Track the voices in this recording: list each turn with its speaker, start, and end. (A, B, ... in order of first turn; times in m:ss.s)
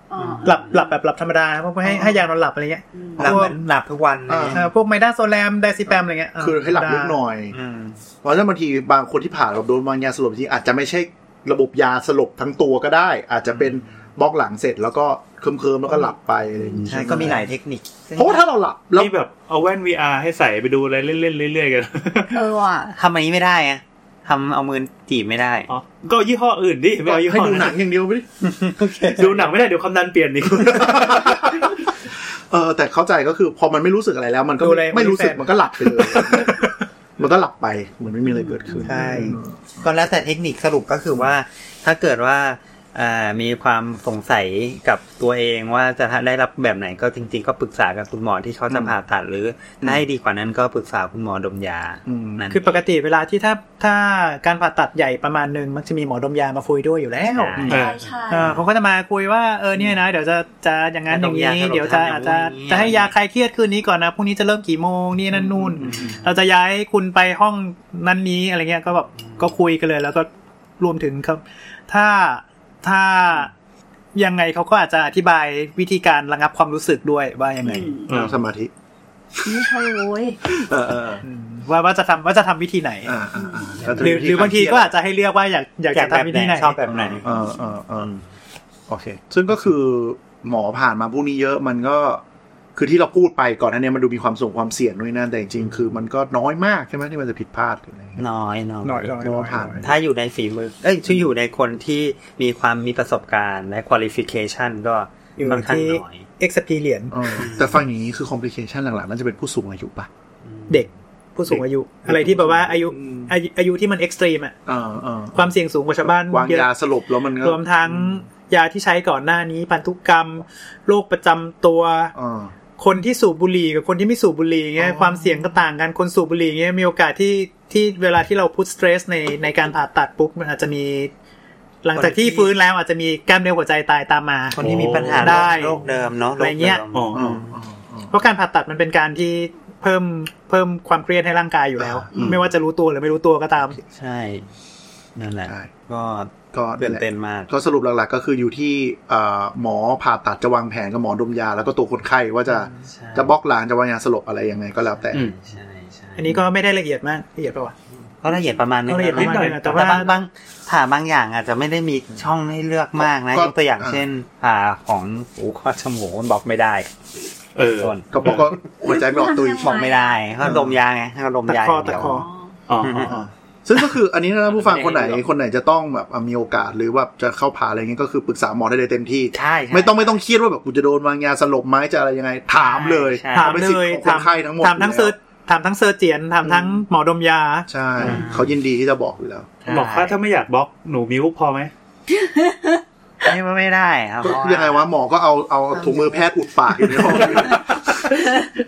0:00.1-0:00.9 A
0:00.2-0:00.5 B
0:00.4-0:03.5 C
0:02.9-0:03.2 A
0:03.2-0:03.5 D
0:03.2-0:04.7 B
0:04.3-0:04.6 D
0:04.5-0:07.2 C
0:06.4-0:07.5 D
0:07.5-0:08.0 B
0:08.2-0:17.5 D
0:16.8-0:18.4 B
0:18.1-0:19.1 D
0:18.9-0:22.4 E
0:22.3-0:22.9 A
0:22.9-0:25.7 B
0:25.7-0:27.7 E
0:27.0-0:28.2 D
0:28.4-0:29.5 B
0:29.1-0:31.3 E
0:30.5-0:39.6 D
0:34.6-0:36.6 C
0:38.3-0:38.8 A
0:38.8-0:52.8 B
0:38.9-0:39.3 C
0:48.7-0:49.0 D
0:52.1-0:52.4 D
0:52.5-0:57.6 C
0:57.3-0:58.6 B
0:57.6-0:57.8 D
0:57.7-0:58.6 A
0:57.7-0:58.0 E
0:58.3-1:10.3 C
1:01.1-1:03.1 B
1:05.3-1:06.1 D
1:05.8-1:06.2 B
1:10.8-1:13.5 C
1:14.1-1:17.9 C
1:17.6-1:18.1 A
1:18.1-1:18.4 E
1:18.1-1:18.7 D
1:19.4-1:20.6 A
1:20.4-1:21.2 D
1:21.2-1:23.1 C
1:23.0-1:24.9 D
1:23.4-1:23.8 A
1:23.9-1:24.2 B
1:24.0-1:26.8 C
1:25.9-1:27.4 B
1:27.2-1:28.2 D
1:28.9-1:32.2 D
1:32.7-1:38.2 D
1:38.2-1:39.2 B
1:38.8-1:39.8 C
1:39.1-1:39.9 D
1:39.8-1:46.2 B
1:45.4-1:47.4 C
1:47.1-1:50.1 D
1:47.4-1:47.8 B
1:50.5-1:50.8 B
1:50.7-1:54.5 C
1:51.5-1:53.3 D
1:54.6-1:55.5 D
1:55.3-1:56.7 C
1:56.0-1:58.2 D
1:57.4-2:02.1 C
2:02.1-2:02.5 D
2:02.8-2:11.1 C
2:04.8-2:05.4 D
2:11.8-2:15.8 C
2:11.9-2:12.5 B
2:14.6-2:17.6 B
2:14.6-2:15.4 D
2:14.9-2:15.3 E
2:16.4-2:16.8 C
2:16.9-2:17.2 E
2:17.1-2:18.1 D
2:18.1-2:23.8 C
2:21.8-2:22.5 D
2:22.1-2:22.4 A
2:23.9-2:24.4 B
2:25.2-2:27.5 B
2:26.5-2:35.3 D
2:32.8-2:33.3 B
2:35.0-2:36.3 B
2:36.2-2:37.7 C
2:38.2-2:46.9 B
2:38.9-2:40.2 C
2:39.1-2:40.0 E
2:43.0-2:44.0 D
2:47.6-2:48.5 E
2:47.7-2:48.6 B
2:48.1-2:49.9 D
2:48.9-2:50.2 A
2:49.6-2:52.1 B
2:50.4-2:50.7 D
2:51.5-2:52.3 C
2:52.0-2:52.5 A
2:52.7-2:53.2 E
2:52.8-2:53.2 B
2:53.0-3:05.1 D
2:54.5-2:55.2 B
2:59.3-3:00.2 B
3:02.5-3:03.6 B
3:03.3-3:07.7 C
3:06.4-3:06.8 D
3:07.7-3:09.5 D
3:08.0-3:08.5 B
3:09.6-3:10.2 B
3:09.7-3:11.7 E
3:12.1-3:12.8 A
3:13.2-3:14.8 B
3:14.2-3:18.5 D
3:15.8-3:16.2 B
3:17.0-3:17.6 B